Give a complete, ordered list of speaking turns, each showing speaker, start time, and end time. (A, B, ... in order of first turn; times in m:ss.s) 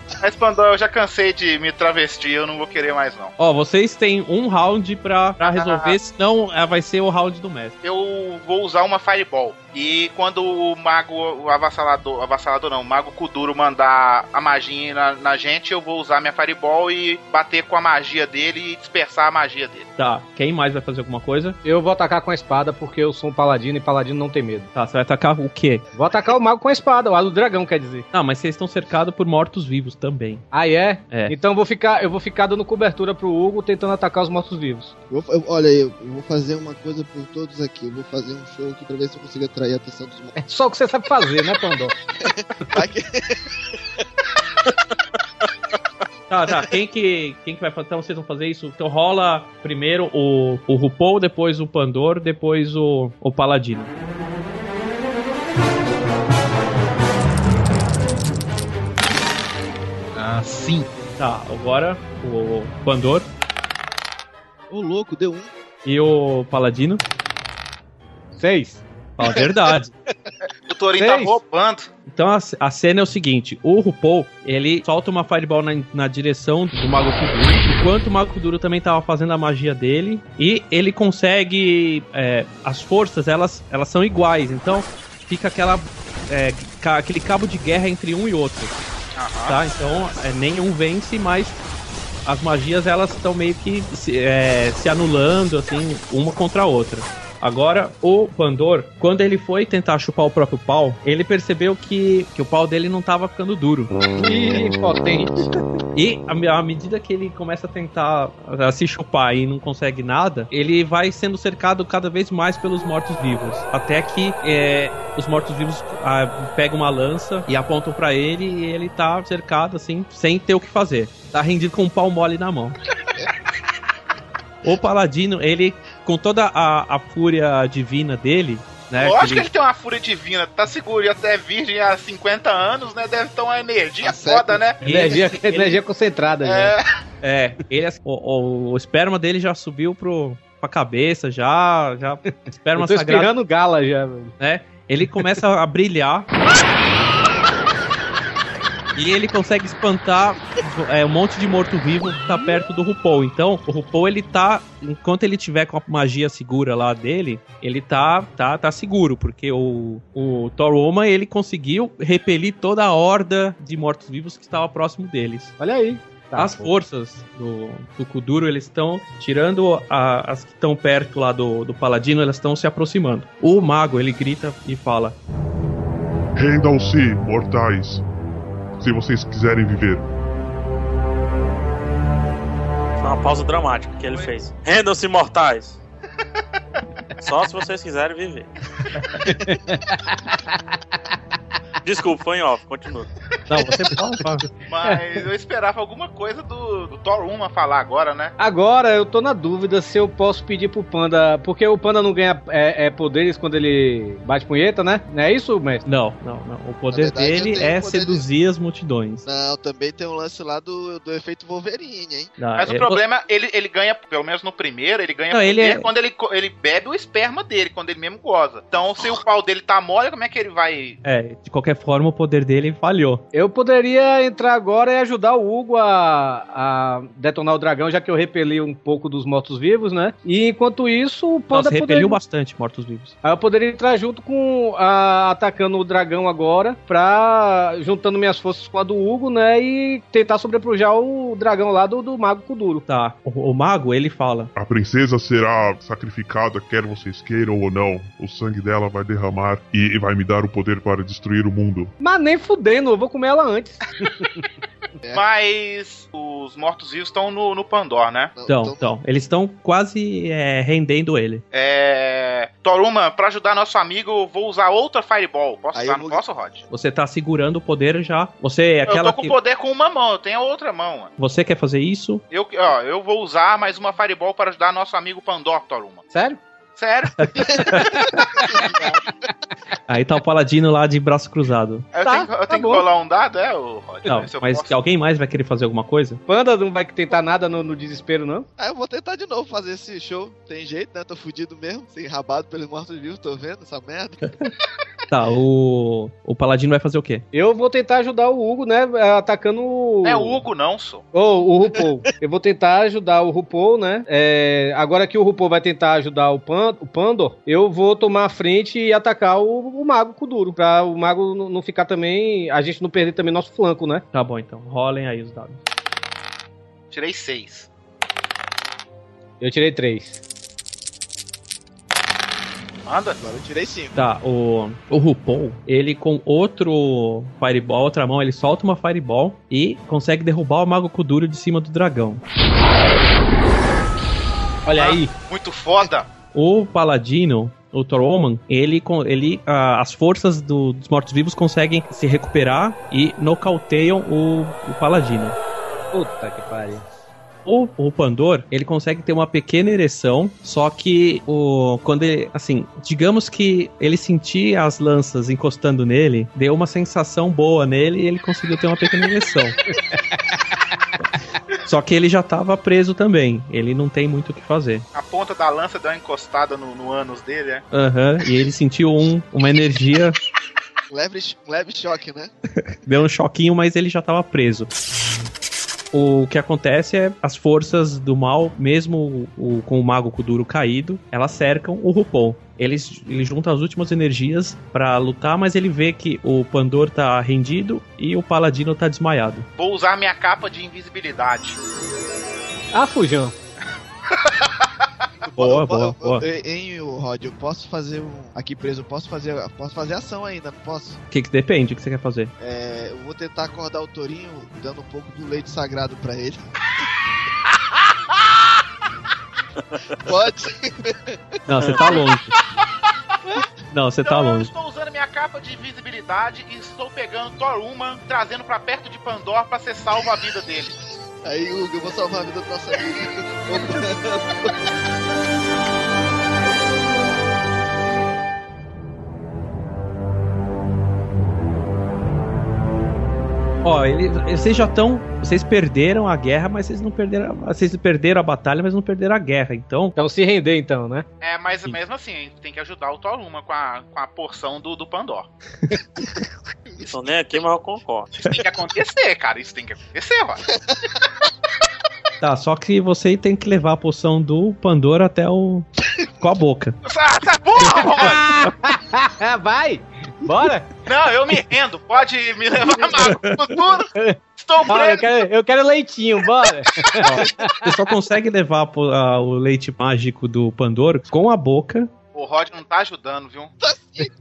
0:00.2-0:03.3 A
0:03.4-0:07.8 B
0:05.6-0:06.0 A
0:07.8-0:19.9 A
0:20.0-0:21.6 B
0:21.6-0:24.7 C
0:24.8-0:25.8 B
0:25.9-0:28.1 C
0:28.1-0:30.4 B
0:30.5-0:34.9 C
0:31.1-0:31.4 B
0:35.1-0:40.4 D
0:40.4-0:42.0 C
0:42.2-0:43.4 D
0:46.3-0:53.9 B
1:00.2-1:00.9 A
1:01.2-1:03.3 B
1:04.7-1:05.5 D
1:05.8-1:07.0 B
1:08.4-1:09.6 C
1:09.2-1:09.9 B
1:10.7-1:11.9 A
1:11.0-1:11.4 C
1:12.1-1:28.7 B
1:29.2-1:29.6 A
1:29.5-1:31.6 B
1:32.3-1:43.9 B
1:44.1-1:45.5 C
1:46.0-2:02.8 B
2:04.6-2:09.5 B
2:09.0-2:14.8 A
2:14.0-2:14.6 D
2:14.8-2:16.8 C
2:14.8-2:15.8 B
2:16.4-2:16.8 A
2:17.2-2:23.3 B
2:22.8-2:24.4 C
2:24.4-2:26.3 B
2:29.0-2:45.6 B
2:45.6-2:46.7 C
2:46.4-2:55.2 B
2:56.4-2:58.0 E
2:58.8-3:00.1 E
3:03.0-3:05.8 F
3:07.2-3:08.5 F
3:09.2-3:10.6 C
3:11.8-3:13.1 F
3:13.5-3:14.5 B
3:14.7-3:18.4 A
3:18.4-3:25.8 C
3:25.8-3:29.2 B
3:26.9-3:28.2 D
3:29.2-3:32.3 D
3:32.4-3:33.0 B
3:32.6-3:41.0 A
3:35.3-3:35.9 B
3:41.0-3:43.2 B
3:43.3-3:52.2 C
3:51.5-3:53.1 B
3:53.2-4:02.8 C
4:02.9-4:04.5 B
4:04.6-4:11.9 E
4:12.0-4:14.4 C
4:15.1-4:18.3 A
4:18.4-4:19.0 D
4:18.5-4:21.4 B
4:21.5-4:26.6 A
4:25.7-4:26.2 D
4:26.7-4:29.4 B
4:28.9-4:31.1 A
4:31.2-4:32.2 B
4:32.3-4:36.0 A
4:36.1-4:36.4 C
4:36.8-4:37.9 A
4:38.4-4:39.1 D
4:39.9-4:41.9 B
4:41.9-4:44.7 A
4:42.0-4:42.8 C
4:44.1-4:46.2 B
4:46.3-4:48.5 C
4:48.6-4:54.3 D
4:55.1-4:57.2 B
4:57.3-5:00.4 C
5:00.0-5:01.0 A
5:01.1-5:14.0 C
5:14.1-5:15.6 B
5:16.9-5:17.7 A
5:19.4-5:20.2 C
5:22.9-5:23.2 A
5:23.2-5:24.0 D
5:24.0-5:32.2 B
5:34.7-5:35.1 C
5:34.8-5:36.1 A
5:36.3-5:45.4 B
5:45.9-5:46.8 C
5:47.4-5:59.6 B
6:01.6-6:04.8 B
6:04.9-6:07.6 A
6:07.7-6:10.2 B
6:10.9-6:12.3 D
6:12.8-6:14.7 B
6:15.9-6:29.5 B
6:29.6-6:31.6 A
6:32.7-6:33.3 C
6:34.1-6:34.7 A
6:35.2-6:41.0 D
6:35.4-6:36.2 B
6:41.1-6:42.3 B
6:42.4-6:46.4 D
6:50.0-6:51.2 D
6:51.5-6:52.3 B
6:53.7-6:54.5 B
6:54.0-7:00.7 A
7:01.2-7:04.5 D
7:13.6-7:20.0 B
7:20.0-7:21.0 C
7:21.2-7:25.3 A
7:26.7-7:27.0 D
7:26.9-7:28.1 F
7:28.3-7:30.4 A
7:30.5-7:30.8 D
7:32.2-7:35.7 B
7:36.2-7:36.8 B
7:36.8-7:38.3 A
7:37.8-7:40.7 C
7:40.8-7:45.1 A
7:44.7-7:47.7 C
7:47.6-7:51.9 B
7:52.1-7:53.5 A
7:53.6-7:54.1 D